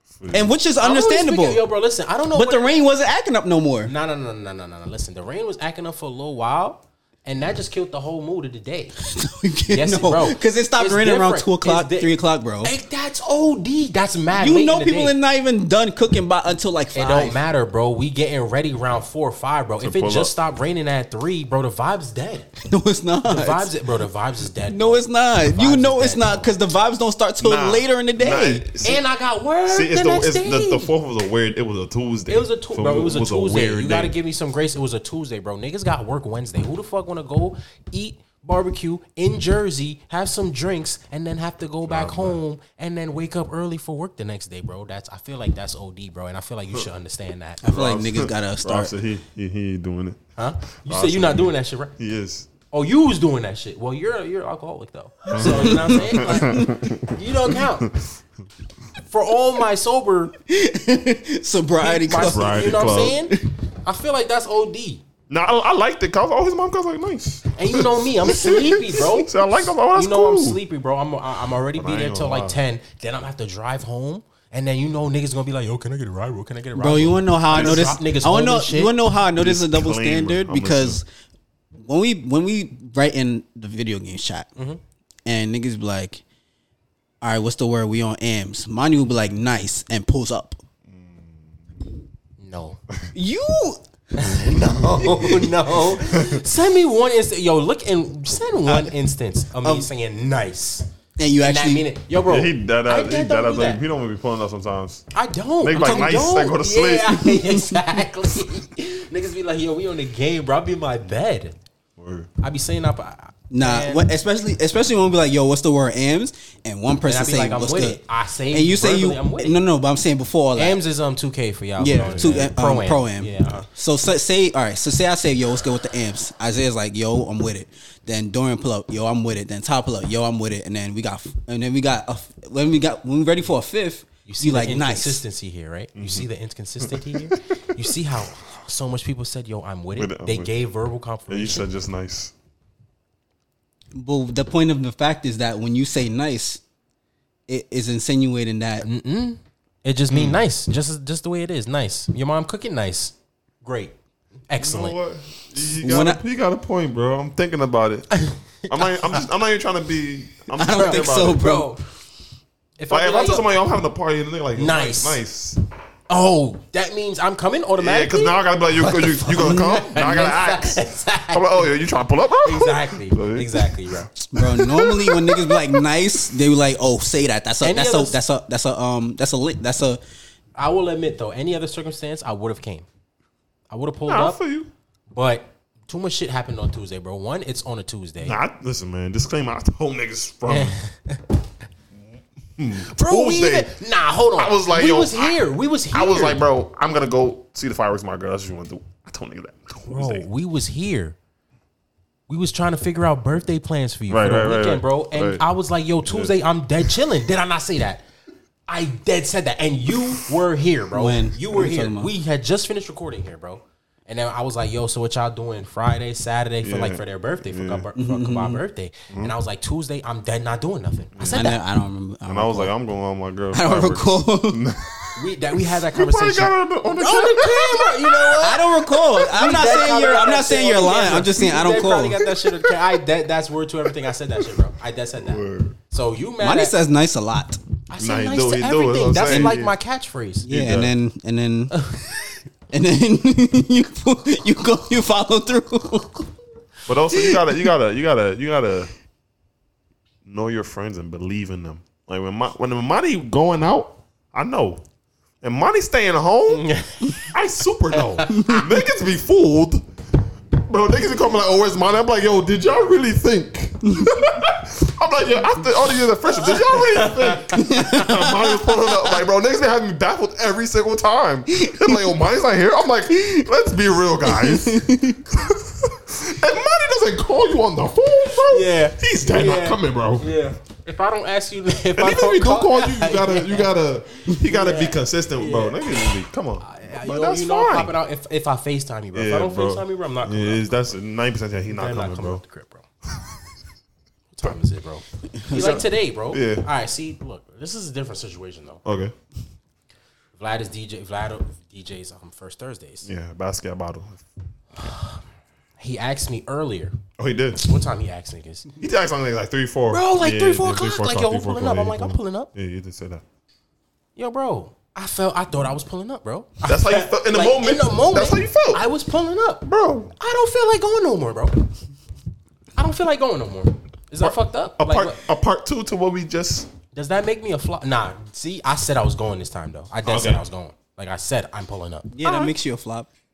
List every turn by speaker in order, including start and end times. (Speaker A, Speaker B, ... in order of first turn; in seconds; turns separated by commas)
Speaker A: 0.2-0.5, Speaker B: 0.3-1.7, Speaker C: 0.8-2.7, Speaker B: 2.3-3.9, Speaker C: 3.9-9.0, Speaker B: 9.0-12.7, Speaker C: 9.7-15.1, Speaker B: 14.3-17.4, Speaker C: 16.9-22.5, Speaker A: 19.8-20.3, Speaker B: 22.6-23.7, Speaker C: 23.3-26.5, Speaker B: 24.7-28.7, Speaker A: 27.4-29.0, Speaker C: 28.8-30.9, Speaker A: 29.7-34.1, Speaker C: 32.3-47.6, Speaker A: 41.9-42.4, Speaker B: 47.6-48.9, Speaker A: 47.6-50.2, Speaker C: 50.4-51.9, Speaker A: 50.8-52.5, Speaker C: 52.7-57.9, Speaker B: 55.3-56.9, Speaker A: 55.3-57.1, Speaker C: 59.1-60.4, Speaker B: 60.5-63.5, Speaker C: 61.8-65.0, Speaker A: 62.1-63.2, Speaker A: 65.3-70.6, Speaker C: 67.5-69.4, Speaker C: 69.9-78.9, Speaker A: 71.7-72.6, Speaker B: 76.8-81.1, Speaker A: 77.5-78.0, Speaker A: 79.4-81.0, Speaker B: 81.8-84.5, Speaker B: 85.3-86.2, Speaker B: 87.2-90.6, Speaker A: 90.9-91.3, Speaker C: 92.4-92.8, Speaker B: 93.1-95.5, Speaker C: 94.2-100.9, Speaker A: 94.3-95.3, Speaker A: 96.0-96.4, Speaker B: 98.7-98.9, Speaker B: 99.6-99.9, Speaker B: 101.2-101.8, Speaker C: 101.4-103.8, Speaker A: 102.3-105.0, Speaker C: 105.1-111.6, Speaker A: 105.6-107.2, Speaker B: 105.8-106.3, Speaker B: 107.3-108.0, Speaker A: 112.0-112.3, Speaker C: 112.4-114.1, Speaker B: 113.5-120.8, Speaker C: 117.1-119.6, Speaker C: 120.6-123.7, Speaker B: 121.8-135.2, Speaker A: 121.9-122.5, Speaker C: 134.3-141.7, Speaker A: 136.0-136.3, Speaker A: 136.8-137.9, Speaker A: 140.0-140.5, Speaker A: 141.3-142.3, Speaker B: 143.9-146.6, Speaker B: 147.5-148.9, Speaker C: 148.8-153.9, Speaker A: 150.1-150.4, Speaker C: 154.5-155.0, Speaker A: 154.6-161.4, Speaker B: 155.6-156.2, Speaker C: 158.1-159.3, Speaker B: 160.5-161.8, Speaker C: 161.1-161.8, Speaker C: 162.8-163.5, Speaker A: 162.9-165.6, Speaker C: 164.6-165.2, Speaker C: 166.1-171.7, Speaker A: 167.8-174.3, Speaker C: 172.4-175.5, Speaker B: 174.3-180.0, Speaker C: 177.6-178.2, Speaker C: 180.6-182.9, Speaker C: 183.7-184.4, Speaker A: 184.1-184.7, Speaker C: 185.1-188.4, Speaker A: 188.2-190.8, Speaker C: 190.5-191.3, Speaker A: 192.6-193.7, Speaker C: 192.8-196.4, Speaker A: 194.4-200.3, Speaker C: 199.9-201.2, Speaker C: 202.3-208.1, Speaker A: 204.1-205.4, Speaker A: 206.1-206.3, Speaker C: 208.7-221.6, Speaker B: 210.9-212.1, Speaker A: 216.6-217.9, Speaker B: 217.9-218.6, Speaker A: 221.2-221.4, Speaker B: 221.3-222.7, Speaker A: 222.2-225.2, Speaker B: 223.5-224.6, Speaker C: 225.2-236.7, Speaker A: 225.8-228.2, Speaker B: 227.0-232.7, Speaker A: 235.2-235.8, Speaker B: 236.4-237.6, Speaker C: 237.9-240.5, Speaker A: 238.0-239.8, Speaker B: 239.2-239.6, Speaker B: 240.4-241.7, Speaker A: 240.5-240.9, Speaker C: 241.7-242.2, Speaker B: 242.7-246.3, Speaker A: 246.9-248.9, Speaker B: 247.1-247.4, Speaker A: 250.3-254.8, Speaker A: 255.4-259.8, Speaker C: 256.5-257.3, Speaker C: 257.9-258.7, Speaker A: 260.6-280.3, Speaker C: 266.4-268.0, Speaker B: 267.6-268.6, Speaker B: 271.6-272.0, Speaker B: 274.2-275.2, Speaker C: 278.5-283.7, Speaker A: 282.0-287.9, Speaker C: 284.3-286.0, Speaker C: 286.6-290.8, Speaker A: 289.1-292.4, Speaker C: 291.7-292.9, Speaker C: 294.3-298.8, Speaker A: 295.5-296.7, Speaker A: 298.9-299.1, Speaker C: 300.4-303.1, Speaker A: 303.1-304.2, Speaker C: 304.8-305.2, Speaker C: 305.8-307.0, Speaker A: 307.2-307.7, Speaker C: 307.6-308.7, Speaker A: 308.8-313.2, Speaker C: 309.9-312.5, Speaker C: 314.2-319.6, Speaker A: 316.6-318.8, Speaker A: 319.6-320.1, Speaker C: 320.2-321.7, Speaker C: 322.8-325.2, Speaker A: 324.2-326.7, Speaker C: 326.9-332.1, Speaker A: 330.1-330.4, Speaker B: 332.1-333.1, Speaker A: 332.2-332.5